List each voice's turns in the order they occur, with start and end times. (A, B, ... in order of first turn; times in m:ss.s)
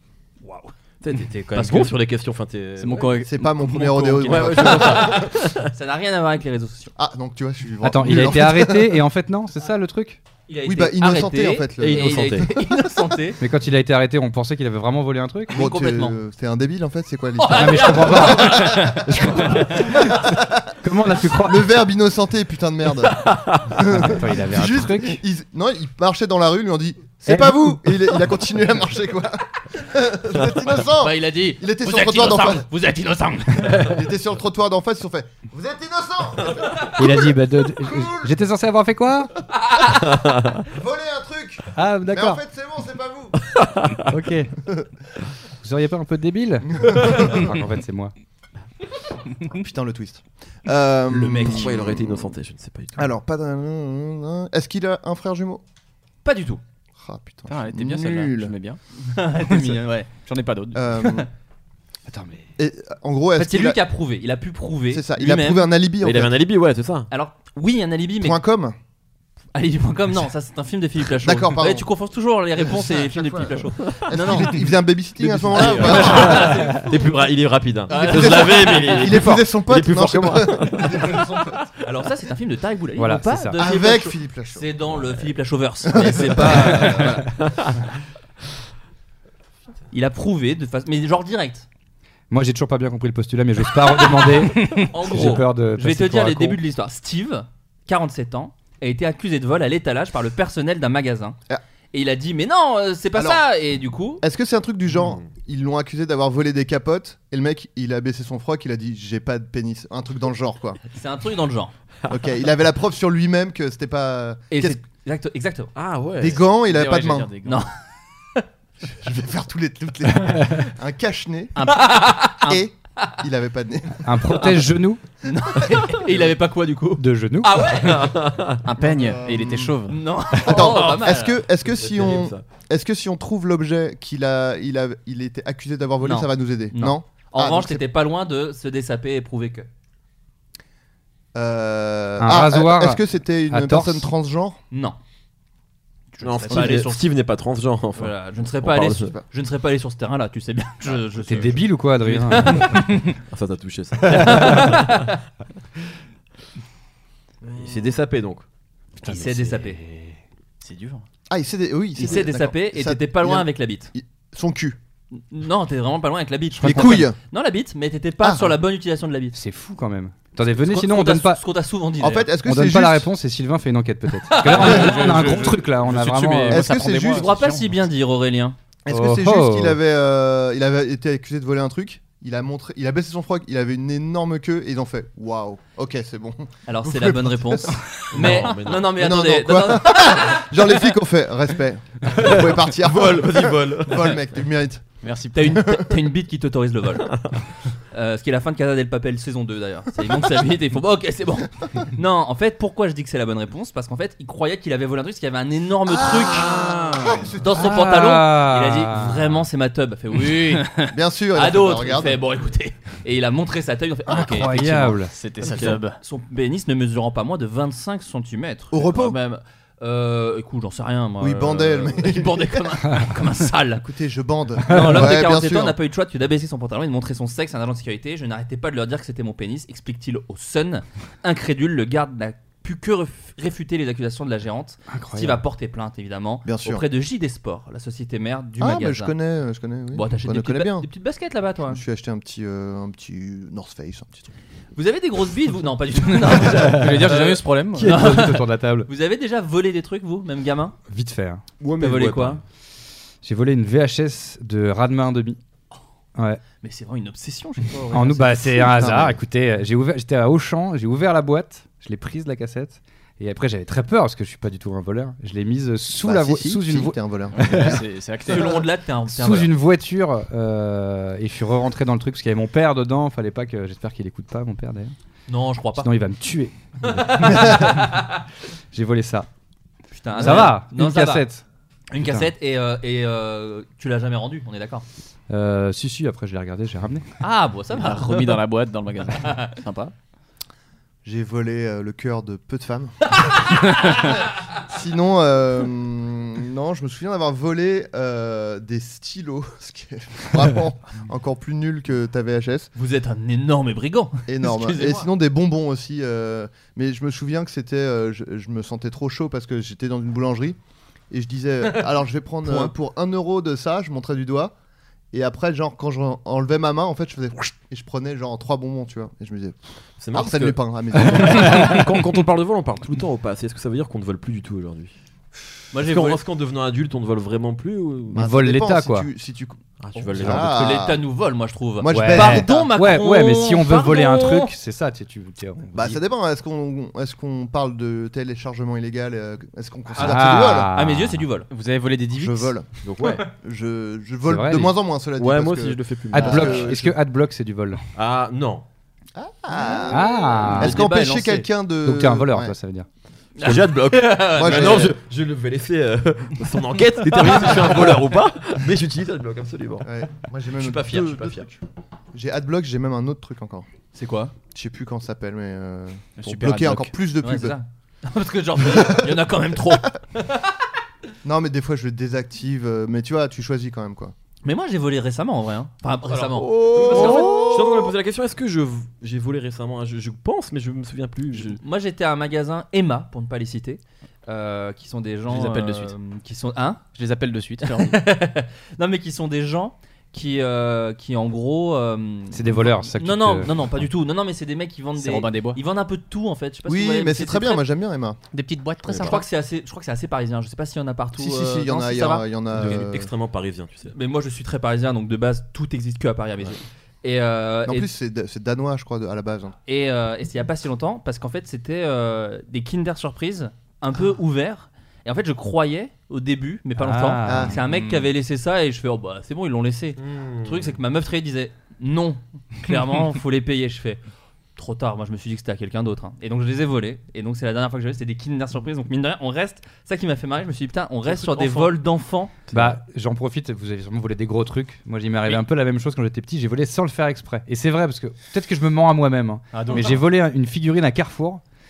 0:00.4-0:00.7 A
0:01.0-0:03.2 B
0:01.6-0:01.9 C
0:02.8-0:04.8 C
0:03.2-0:05.2 D
0:04.2-0:05.6 B
0:04.6-0:06.9 A
0:07.0-0:09.0 D
0:07.8-0:10.2 E
0:10.5-0:13.4 A
0:10.6-0:12.5 D
0:11.8-0:12.5 B
0:13.4-0:15.6 E
0:15.5-0:16.1 A
0:15.5-0:18.9 D
0:17.4-0:20.1 A
0:17.5-0:21.7 E
0:19.8-0:20.7 D
0:21.3-0:32.7 D
0:23.2-0:23.6 B
0:23.9-0:25.2 E
0:27.3-0:27.8 E
0:30.8-0:33.9 A
0:33.7-0:38.4 D
0:37.0-0:39.3 E
0:39.7-0:40.0 A
0:40.0-0:40.6 B
0:40.6-0:43.6 D
0:41.7-0:42.4 E
0:43.5-0:44.1 B
0:44.1-0:44.5 E
0:45.6-0:48.1 E
0:46.8-0:47.4 D
0:49.5-0:52.3 D
0:51.1-0:51.6 A
0:51.3-0:53.1 B
0:52.9-0:55.6 D
0:56.2-0:56.6 A
0:57.0-0:58.5 D
0:57.5-0:58.8 C
0:59.0-1:00.1 A
0:59.4-1:00.9 C
1:00.7-1:01.3 D
1:02.1-1:02.5 E
1:02.6-1:03.8 D
1:03.3-1:05.7 A
1:04.9-1:06.4 D
1:06.0-1:07.1 B
1:07.1-1:08.4 A
1:08.2-1:08.8 D
1:09.5-1:14.6 A
1:11.2-1:11.9 D
1:12.6-1:16.8 D
1:13.8-1:14.3 B
1:15.2-1:21.2 B
1:15.3-1:16.9 A
1:17.9-1:19.2 A
1:17.9-1:21.6 D
1:21.8-1:27.3 A
1:23.0-1:23.6 E
1:23.6-1:25.0 D
1:25.8-1:27.0 D
1:27.4-1:27.7 B
1:29.9-1:31.7 A
1:32.3-1:36.6 E
1:34.5-1:41.4 A
1:41.9-1:44.2 A
1:43.1-1:43.4 D
1:44.2-1:50.8 D
1:50.9-1:51.7 A
1:52.1-1:54.8 D
1:54.5-1:55.7 A
1:55.7-1:56.4 B
1:56.2-1:57.3 D
1:56.6-1:57.6 C
1:58.9-2:01.7 D
2:01.6-2:02.6 A
2:02.4-2:04.1 D
2:04.0-2:05.0 E
2:05.2-2:08.1 A
2:07.0-2:07.9 E
2:07.7-2:08.6 B
2:08.6-2:10.0 C
2:08.8-2:09.7 D
2:09.9-2:11.4 A
2:10.3-2:17.8 D
2:11.6-2:12.4 B
2:16.0-2:19.7 A
2:21.3-2:24.6 D
2:22.2-2:24.1 E
2:24.7-2:25.0 A
2:26.2-2:27.0 A
2:26.2-2:29.1 B
2:28.0-2:32.9 A
2:31.2-2:33.1 E
2:33.3-2:34.9 B
2:34.0-2:35.2 A
2:37.5-2:38.4 B
2:39.0-2:39.8 A
2:39.0-2:40.1 C
2:40.6-2:41.0 C
2:41.3-2:44.8 D
2:42.0-2:43.9 A
2:45.1-2:49.4 A
2:46.6-2:47.0 E
2:46.6-2:47.2 D
2:48.2-2:48.6 D
2:49.3-2:51.4 E
2:50.6-2:52.3 A
2:52.0-2:53.1 D
2:52.4-2:56.8 E
2:54.2-2:55.2 A
2:54.4-2:57.8 C
2:56.5-2:57.3 D
2:57.0-2:58.6 A
2:58.8-3:14.8 D
2:58.9-2:59.8 E
3:06.7-3:10.5 A
3:08.1-3:09.0 B
3:12.1-3:14.2 B
3:15.0-3:15.6 C
3:15.3-3:17.2 A
3:15.4-3:15.9 D
3:17.9-3:26.6 A
3:25.9-3:27.7 D
3:27.4-3:35.0 A
3:27.6-3:29.4 E
3:30.2-3:30.6 C
3:30.9-3:32.2 D
3:34.1-3:35.1 E
3:35.1-3:36.0 C
3:35.4-3:35.8 B
3:36.0-3:43.8 A
3:38.7-3:39.2 D
3:41.2-3:42.6 D
3:43.8-3:45.8 D
3:44.6-3:59.1 A
3:54.9-3:55.4 E
3:56.4-3:56.8 D
3:58.6-4:00.9 D
3:59.9-4:01.8 A
4:01.7-4:04.3 D
4:04.7-4:10.7 A
4:06.4-4:08.1 C
4:07.8-4:08.9 E
4:10.9-4:11.4 E
4:11.6-4:12.4 B
4:11.8-4:12.4 A
4:13.2-4:15.4 E
4:16.2-4:16.4 E
4:16.6-4:18.8 A
4:17.9-4:27.7 E
4:18.7-4:19.2 D
4:26.0-4:27.8 D
4:27.3-4:28.6 C
4:28.3-4:29.5 A
4:29.1-4:34.9 E
4:35.3-4:35.9 A
4:35.8-4:38.0 E
4:36.8-4:38.0 A
4:38.7-4:39.3 E
4:39.9-4:41.3 A
4:40.1-4:41.4 E
4:41.9-4:44.8 A
4:42.0-4:42.3 E
4:45.3-4:47.0 E
4:47.2-4:48.3 A
4:47.7-4:49.9 C
4:49.2-4:49.5 A
4:51.0-4:53.5 D
4:54.6-5:02.7 D
5:02.8-5:05.1 A
5:04.3-5:10.6 D
5:11.1-5:14.5 D
5:12.4-5:12.7 A
5:15.1-5:19.6 D
5:20.0-5:24.9 B
5:20.1-5:21.7 D
5:25.7-5:26.2 A
5:25.7-5:28.3 B
5:28.1-5:29.1 E
5:28.1-5:29.6 D
5:29.8-5:30.8 B
5:29.9-5:34.5 A
5:30.1-5:31.0 D
5:31.8-5:32.7 D
5:31.9-5:36.0 E
5:35.7-5:40.7 D
5:40.0-5:41.3 E
5:40.7-5:41.5 A
5:41.5-5:43.1 C
5:42.2-5:42.7 D
5:42.8-5:43.2 B
5:43.3-5:46.9 D
5:44.2-5:44.7 E
5:45.2-5:47.0 B
5:46.1-5:47.8 E
5:48.0-5:48.6 B
5:49.1-5:52.5 D
5:49.9-5:50.8 E
5:50.4-5:51.5 A
5:51.8-5:52.9 E
5:53.4-5:54.9 A
5:53.4-5:59.9 B
5:54.3-5:55.0 D
5:59.8-6:01.6 D
6:00.5-6:01.5 B
6:02.1-6:03.7 D
6:03.9-6:04.3 A
6:04.5-6:07.6 D
6:06.2-6:06.9 C
6:07.2-6:10.5 A
6:08.7-6:09.1 D
6:11.2-6:14.1 D
6:14.4-6:17.6 A
6:16.1-6:21.6 B
6:16.5-6:17.9 D
6:21.3-6:26.8 A
6:25.3-6:25.9 C
6:26.9-6:28.0 C
6:27.6-6:37.6 A
6:32.3-6:33.8 E
6:35.0-6:35.6 C
6:36.6-6:38.2 D
6:38.3-6:39.2 C
6:39.0-6:42.3 A
6:41.2-6:43.1 D
6:42.5-6:43.9 B
6:43.9-6:47.9 A
6:47.6-6:49.6 D
6:49.7-7:04.0 A
6:56.8-6:58.0 E
6:57.2-6:57.6 D
7:00.0-7:00.8 B
7:04.6-7:12.4 A
7:11.1-7:11.8 B
7:12.5-7:12.8 B
7:12.5-7:21.4 E
7:19.5-7:20.0 C